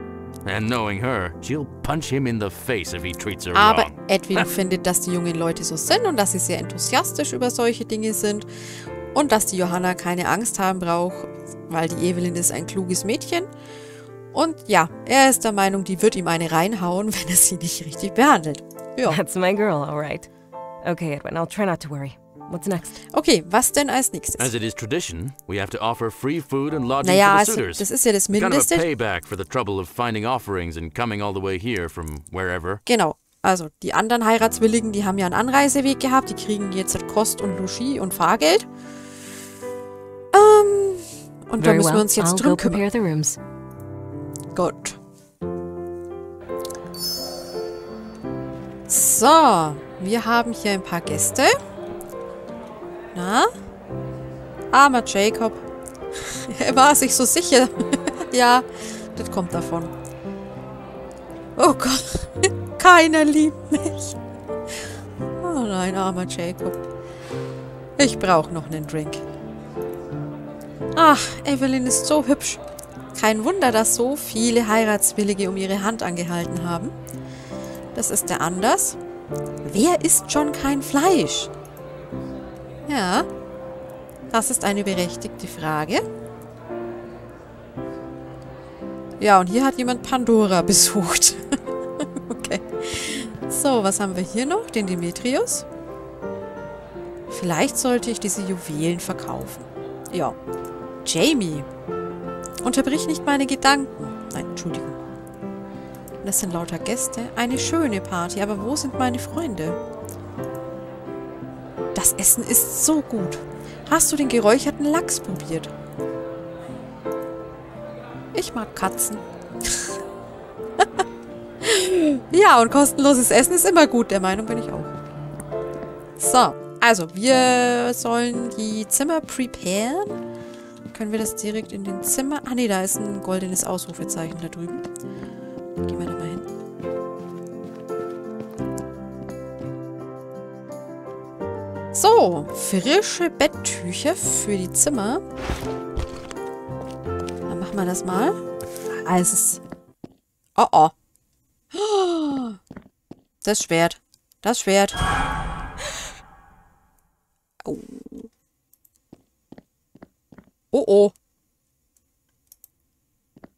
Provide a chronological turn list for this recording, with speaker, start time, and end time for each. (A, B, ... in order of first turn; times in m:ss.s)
0:00.4-0:04.5 A
0:03.5-0:08.5 B
0:09.1-0:13.5 B
0:14.3-0:19.2 B
0:19.0-0:20.3 C
0:20.8-0:23.0 C
0:23.1-0:24.5 B
0:24.4-0:32.8 A
0:27.0-0:28.8 B
0:32.8-0:38.7 B
0:40.3-0:42.8 B
0:41.6-0:43.4 C
0:44.5-0:45.0 B
0:48.9-0:51.6 B
0:53.1-0:53.5 B
0:54.7-0:55.6 B
0:56.2-0:59.9 B
1:01.6-1:04.2 B
1:04.7-1:06.8 B
1:08.0-1:09.2 B
1:10.9-1:12.6 B
1:13.1-1:16.9 B
1:17.9-1:19.0 B
1:19.6-1:21.5 B
1:22.9-1:23.3 B
1:24.3-1:26.0 B
1:29.2-1:35.6 B
1:37.3-1:40.4 B
1:41.0-1:41.7 B
1:42.6-1:45.0 B
1:46.2-1:49.8 B
1:51.9-1:55.7 B
1:58.3-2:00.0 B
2:00.8-2:01.0 B
2:01.6-2:04.9 B
2:06.2-2:10.2 B
2:10.9-2:14.8 B
2:15.8-2:16.5 B
2:21.9-2:25.2 B
2:27.5-2:28.4 B
2:28.9-2:29.6 B
2:30.6-2:30.9 B
2:31.7-2:32.6 B
2:33.4-2:35.0 B
2:37.6-2:38.3 B
2:40.7-2:41.1 B